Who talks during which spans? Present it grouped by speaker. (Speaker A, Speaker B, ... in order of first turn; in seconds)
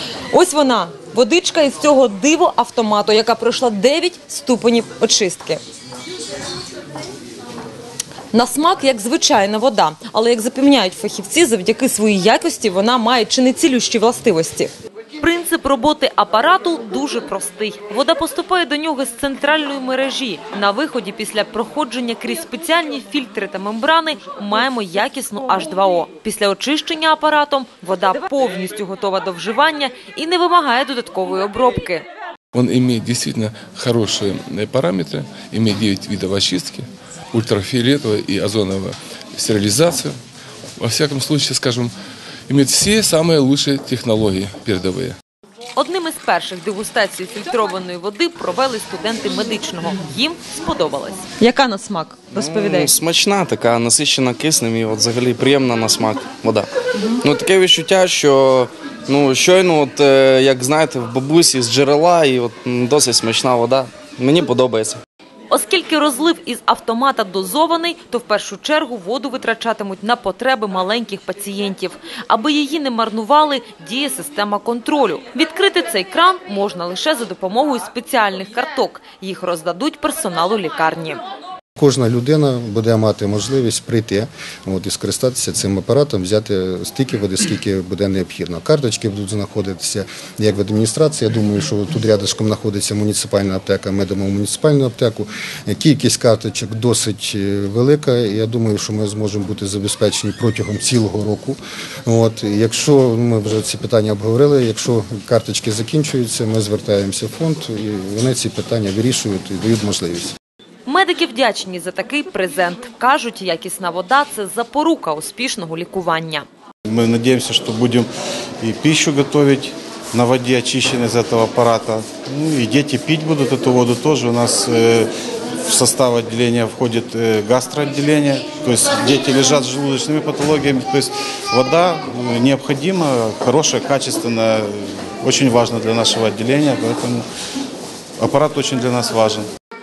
Speaker A: 0.3-5.6, 8.3-32.0, 45.7-52.9, 65.5-81.2, 110.8-116.5
Speaker B: 32.5-40.1, 40.8-41.9, 42.5-45.1
Speaker C: 52.3-56.7, 57.2-65.0
Speaker D: 81.8-110.3
Speaker E: 116.8-118.1, 118.6-125.1, 125.7-137.2, 138.2-139.5